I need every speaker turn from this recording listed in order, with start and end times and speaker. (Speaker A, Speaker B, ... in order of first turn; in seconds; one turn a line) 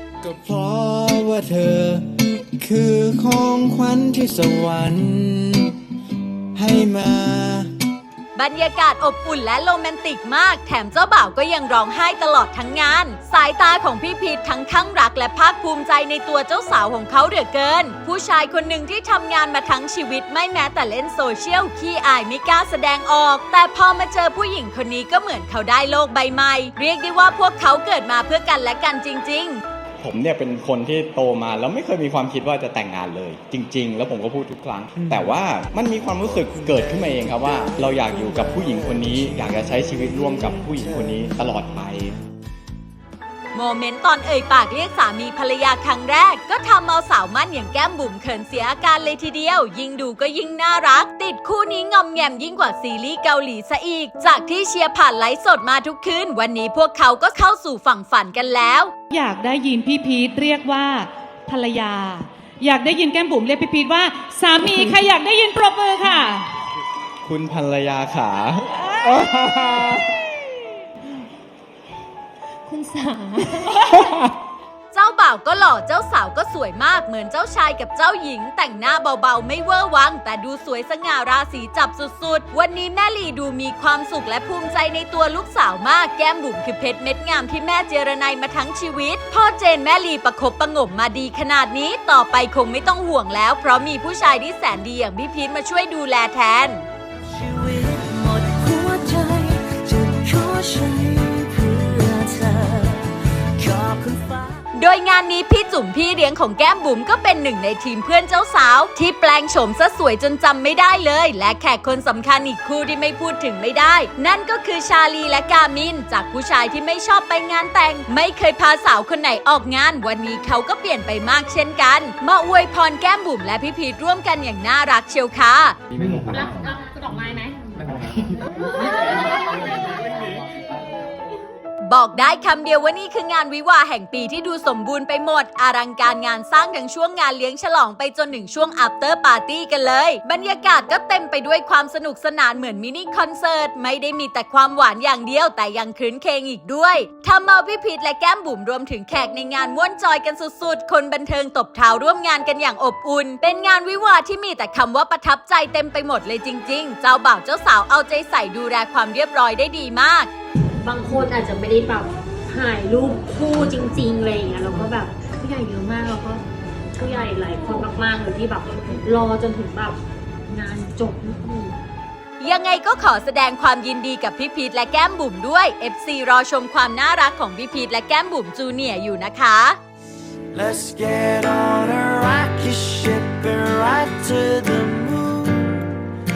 Speaker A: 0.2-2.0
Speaker A: 2.6-5.6
Speaker A: 6.6-7.6
Speaker B: 8.3-29.6
Speaker C: 30.0-42.2
Speaker D: 36.3-41.3
Speaker B: 43.5-58.9
Speaker E: 59.1-66.5
Speaker C: 67.2-69.9
Speaker B: 74.9-96.8
Speaker D: 97.3-104.5
Speaker B: 104.7-125.8
Speaker F: 127.1-127.4
Speaker B: 131.9-160.3
Speaker F: 160.8-166.4
Speaker F: 167.0-171.8
Speaker B: 172.4-179.8
Speaker D: 180.5-185.8